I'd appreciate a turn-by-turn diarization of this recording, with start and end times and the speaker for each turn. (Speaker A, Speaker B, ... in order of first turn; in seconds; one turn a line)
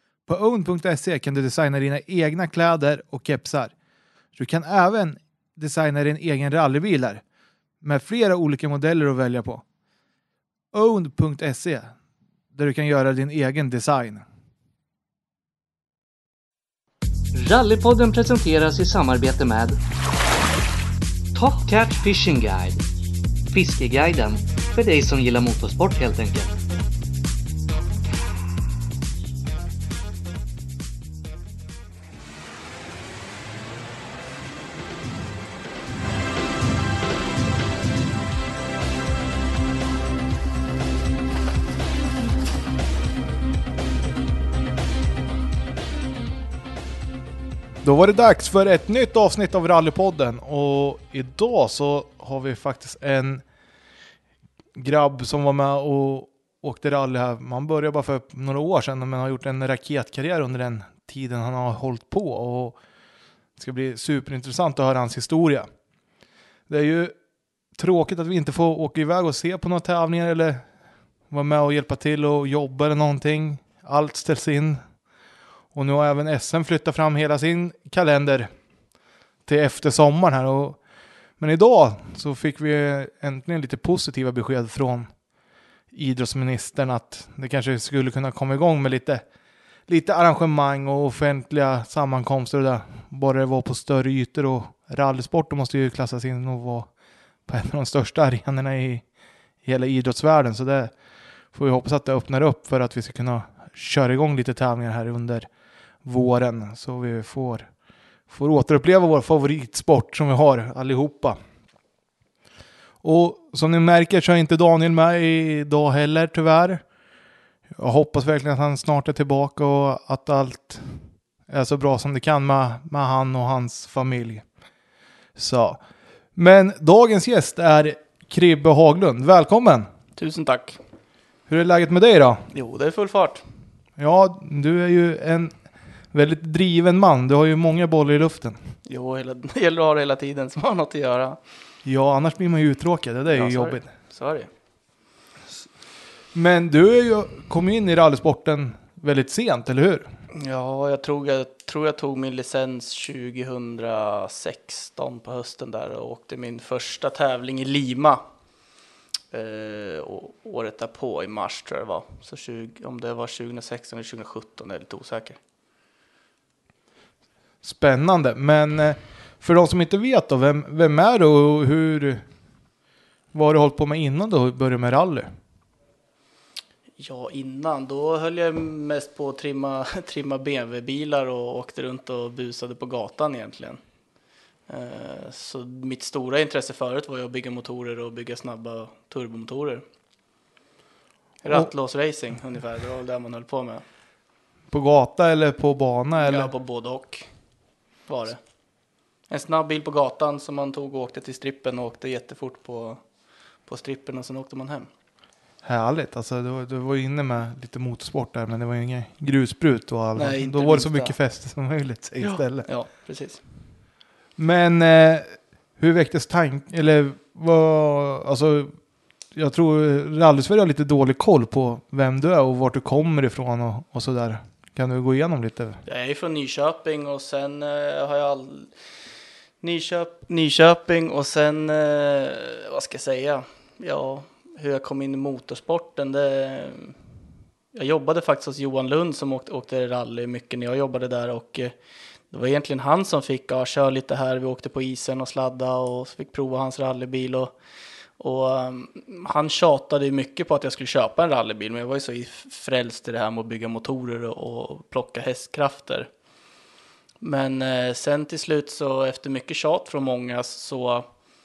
Speaker A: 0.3-3.7
Speaker A: 4.3-7.2
Speaker A: 7.8-9.6
Speaker A: 10.7-11.9
Speaker A: 12.5-14.2
Speaker B: 17.3-19.8
Speaker B: 21.3-22.8
Speaker B: 23.5-26.6
Speaker A: 47.8-53.4
Speaker A: 54.8-62.8
Speaker A: 63.6-65.7
Speaker A: 66.7-67.2
Speaker A: 67.8-70.7
Speaker A: 71.3-74.8
Speaker A: 75.7-78.5
Speaker A: 79.5-80.8
Speaker A: 81.4-85.1
Speaker A: 85.9-89.2
Speaker A: 89.9-96.9
Speaker A: 97.5-99.0
Speaker A: 99.6-100.9
Speaker A: 101.5-105.5
Speaker A: 106.0-107.7
Speaker A: 108.3-111.4
Speaker A: 113.0-116.8
Speaker A: 117.8-124.5
Speaker A: 125.4-125.8
Speaker A: 126.3-129.9
Speaker C: 130.2-130.8
Speaker A: 131.5-132.5
Speaker C: 132.5-133.4
Speaker A: 134.0-135.5
Speaker A: 136.1-138.6
Speaker C: 138.9-141.4
Speaker A: 141.8-143.9
Speaker C: 143.3-144.5
Speaker A: 146.3-150.1
Speaker C: 150.3-158.2
Speaker C: 159.3-165.4
Speaker A: 167.6-172.2
Speaker A: 173.3-175.3
Speaker C: 177.0-183.8
Speaker C: 184.7-189.8
Speaker C: 191.4-193.8
Speaker A: 194.7-196.5
Speaker C: 196.2-197.3
Speaker C: 198.1-198.4
Speaker C: 199.3-203.0
Speaker C: 203.7-204.9
Speaker A: 205.6-212.7
Speaker C: 210.2-211.2
Speaker C: 212.2-213.4
Speaker A: 214.4-218.8
Speaker A: 219.3-225.8
Speaker C: 225.9-228.7
Speaker C: 229.6-237.0
Speaker C: 237.7-241.8
Speaker C: 242.3-247.6
Speaker C: 248.2-256.1
Speaker C: 257.2-261.1